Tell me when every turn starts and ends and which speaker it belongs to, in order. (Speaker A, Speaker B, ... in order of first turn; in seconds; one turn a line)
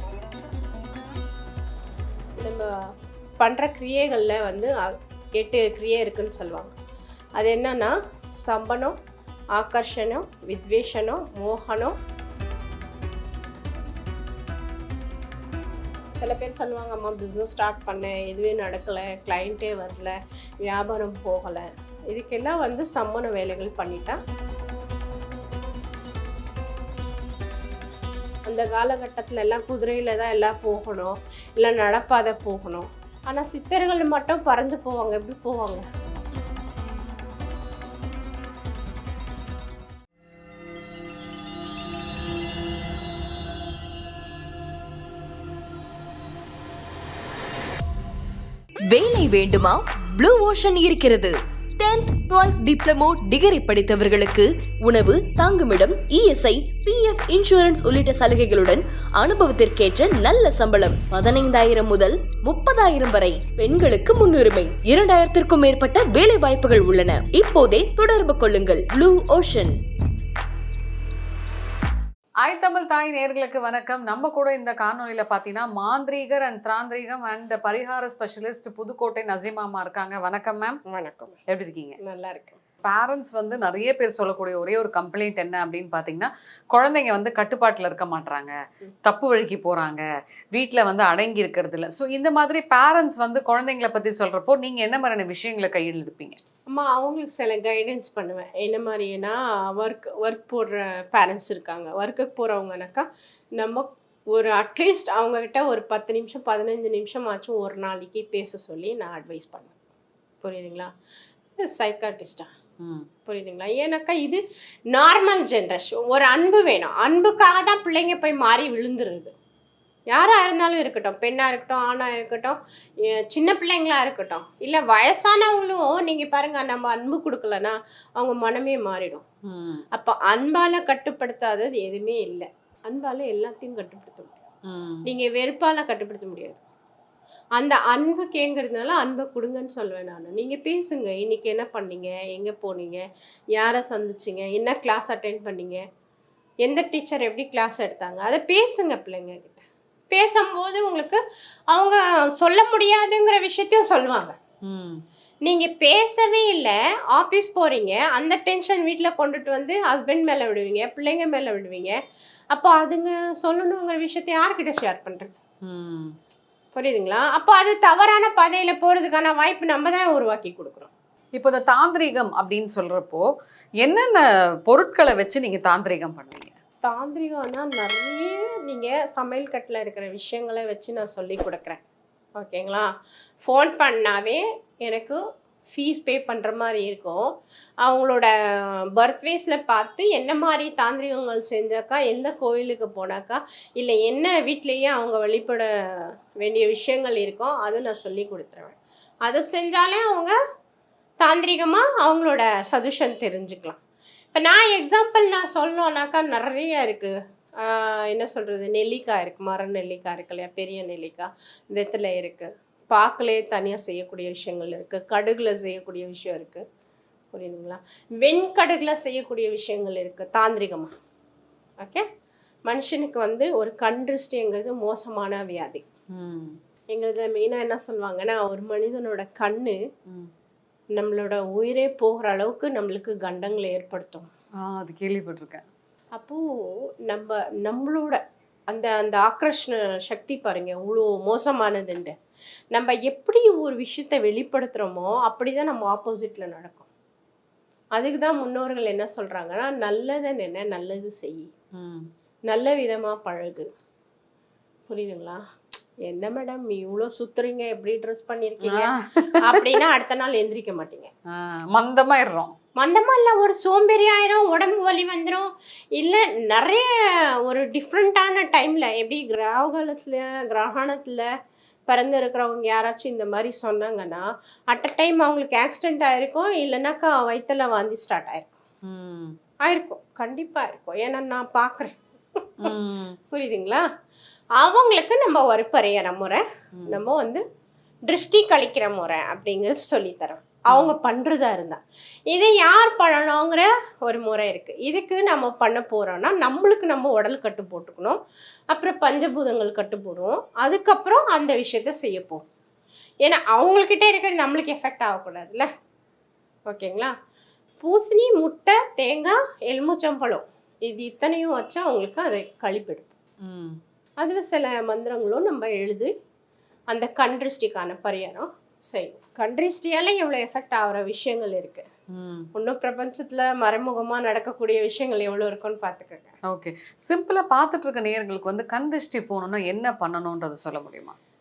Speaker A: 2.4-2.7
Speaker A: 3.4-6.7
Speaker A: 7.4-9.0
Speaker A: 9.6-11.9
Speaker A: 16.2-24.2
Speaker A: 28.5-35.9
Speaker B: 48.9-69.7
Speaker C: 72.4-80.8
Speaker A: 80.9-81.4
Speaker C: 81.5-82.0
Speaker A: 82.0-82.6
Speaker C: 82.8-88.5
Speaker C: 89.1-96.4
Speaker A: 96.7-103.1
Speaker A: 103.6-109.7
Speaker A: 110.4-110.9
Speaker A: 111.6-112.5
Speaker A: 113.3-119.3
Speaker A: 120.1-122.6
Speaker A: 123.1-129.2
Speaker C: 129.5-129.8
Speaker A: 129.9-134.4
Speaker C: 134.7-135.0
Speaker A: 135.1-136.6
Speaker A: 137.6-143.0
Speaker A: 143.6-145.8
Speaker A: 146.7-151.2
Speaker A: 151.7-154.3
Speaker C: 154.7-155.0
Speaker A: 155.4-162.0
Speaker A: 162.5-165.4
Speaker C: 165.7-166.1
Speaker A: 166.7-170.9
Speaker C: 171.3-173.3
Speaker C: 173.8-176.6
Speaker A: 176.8-181.8
Speaker A: 182.4-182.9
Speaker A: 183.4-187.3
Speaker A: 187.8-195.7
Speaker A: 196.4-200.4
Speaker A: 201.2-203.8
Speaker A: 204.3-216.6
Speaker A: 217.3-220.9
Speaker A: 221.8-222.0
Speaker A: 222.7-225.8
Speaker C: 226.2-226.5
Speaker A: 226.9-229.8
Speaker A: 230.9-234.3
Speaker C: 234.6-235.7
Speaker A: 236.1-236.4
Speaker A: 237.1-242.2
Speaker A: 242.7-246.9
Speaker A: 247.9-251.5
Speaker C: 251.8-252.1
Speaker A: 252.5-253.7
Speaker A: 254.9-255.4
Speaker A: 256.1-261.1
Speaker C: 258.7-259.8
Speaker C: 261.3-262.5
Speaker A: 262.8-266.9
Speaker A: 267.5-271.3
Speaker A: 271.9-278.5
Speaker C: 278.9-279.4
Speaker A: 279.6-282.7
Speaker C: 282.6-283.2
Speaker A: 283.3-283.8
Speaker A: 284.6-287.4
Speaker A: 288.1-291.8
Speaker A: 292.3-298.2
Speaker A: 298.7-302.4
Speaker A: 303.2-305.7
Speaker A: 306.7-307.1
Speaker A: 307.8-313.1
Speaker C: 313.4-313.8
Speaker A: 314.2-316.1
Speaker A: 316.9-321.9
Speaker C: 322.1-322.5
Speaker A: 322.5-326.3
Speaker C: 326.5-331.1